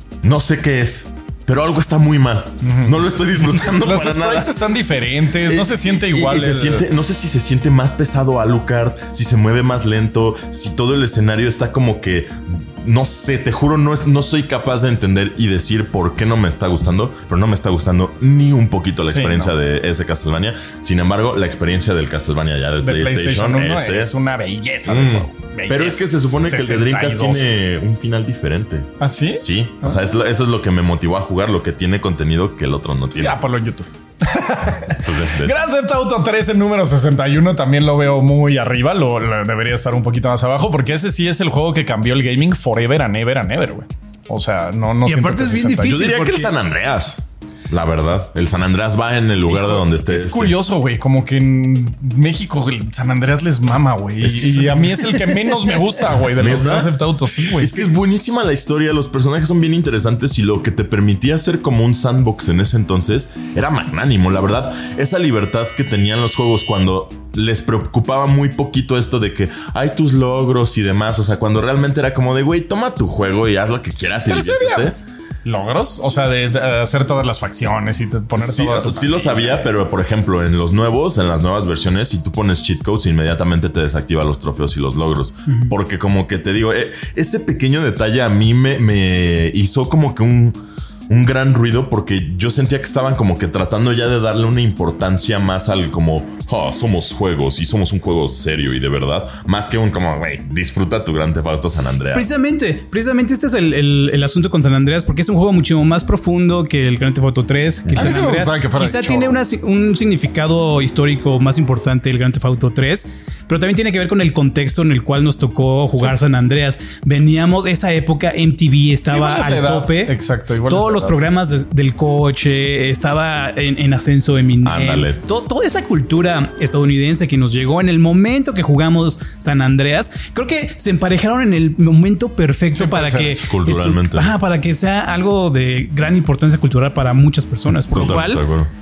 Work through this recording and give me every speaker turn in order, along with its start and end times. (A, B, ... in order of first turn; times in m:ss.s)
0:00.2-0:04.6 A
0:02.6-0:03.1 B
0:03.6-0:06.9 B
0:05.4-0:24.1 A
0:19.1-0:19.5 B
0:22.8-0:27.5 B
0:24.9-0:33.4 A
0:29.0-0:30.0 B
0:33.2-0:46.1 B
0:35.0-0:35.6 A
0:45.0-0:46.5 C
0:45.8-0:50.6 A
0:49.5-0:57.8 B
0:54.2-0:55.1 A
0:56.0-1:15.0 A
1:14.3-1:14.9 B
1:15.4-1:19.7 B
1:18.4-1:30.6 A
1:31.1-1:42.3 A
1:42.1-2:00.2 C
1:47.9-1:49.4 B
1:59.1-2:01.2 B
2:00.7-2:18.4 C
2:04.6-2:05.2 A
2:12.8-2:13.4 B
2:13.4-2:14.4 A
2:17.9-2:18.7 A